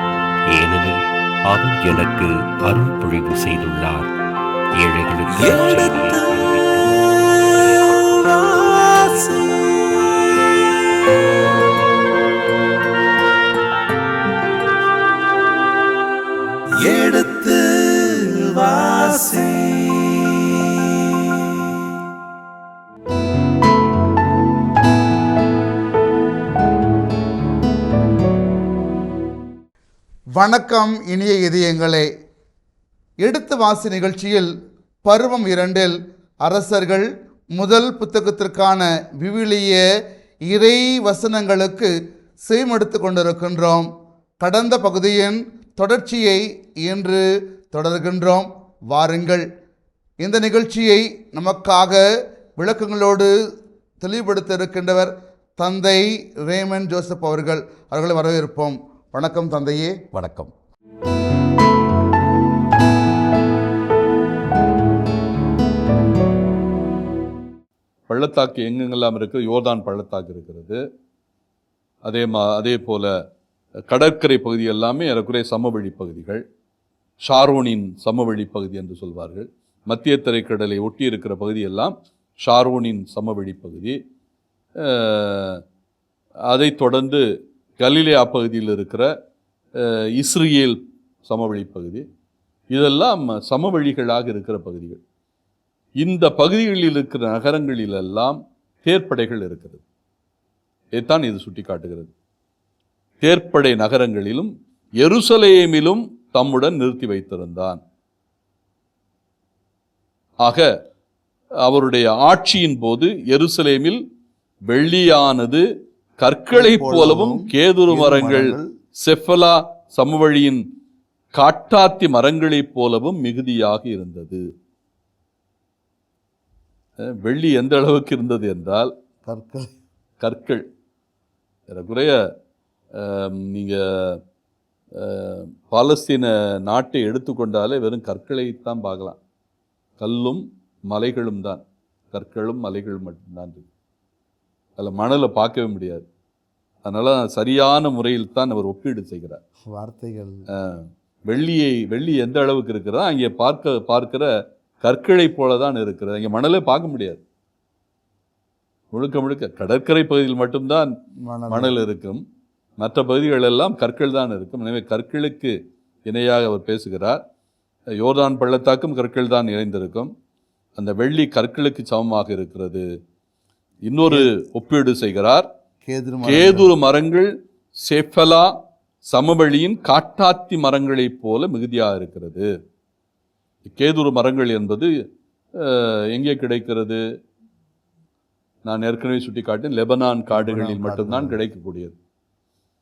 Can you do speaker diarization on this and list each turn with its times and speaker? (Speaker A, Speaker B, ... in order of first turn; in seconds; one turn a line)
Speaker A: 0.5-4.1
Speaker A: 4.8-7.9
Speaker B: 8.3-9.6
Speaker B: 16.8-21.0
Speaker B: 30.4-32.1
Speaker B: 33.2-34.5
Speaker B: 35.0-39.8
Speaker B: 40.5-43.9
Speaker B: 44.4-49.5
Speaker B: 50.2-52.0
Speaker B: 52.6-53.3
Speaker B: 54.0-60.5
Speaker C: 68.1-70.8
Speaker C: 72.0-73.1
Speaker C: 73.9-76.4
Speaker C: 77.3-84.0
Speaker C: 84.8-85.6
Speaker C: 86.5-87.2
Speaker C: 87.8-89.1
Speaker C: 89.8-92.0
Speaker C: 92.7-95.0
Speaker C: 96.0-99.8
Speaker C: 100.9-102.1
Speaker C: 103.2-107.8
Speaker C: 110.4-110.7
Speaker C: 111.6-114.0
Speaker C: 114.7-115.6
Speaker C: 116.2-120.6
Speaker B: 116.5-118.7
Speaker C: 121.3-124.4
Speaker C: 127.0-128.9
Speaker B: 129.2-129.7
Speaker C: 130.2-130.6
Speaker C: 131.7-132.2
Speaker C: 132.9-134.2
Speaker C: 134.9-139.2
Speaker C: 140.0-141.6
Speaker C: 142.1-143.6
Speaker C: 144.8-146.1
Speaker C: 146.8-149.4
Speaker B: 149.6-150.4
Speaker C: 150.5-154.3
Speaker C: 154.8-157.2
Speaker C: 158.9-160.9
Speaker B: 161.2-161.7
Speaker C: 161.5-162.2
Speaker C: 162.8-167.2
Speaker C: 168.0-170.1
Speaker C: 170.8-172.9
Speaker C: 173.9-175.5
Speaker B: 174.1-174.3
Speaker B: 175.8-176.7
Speaker C: 176.2-177.3
Speaker C: 177.8-178.5
Speaker C: 179.0-182.5
Speaker C: 183.6-184.9
Speaker C: 185.5-187.0
Speaker C: 188.6-191.9
Speaker B: 190.3-191.4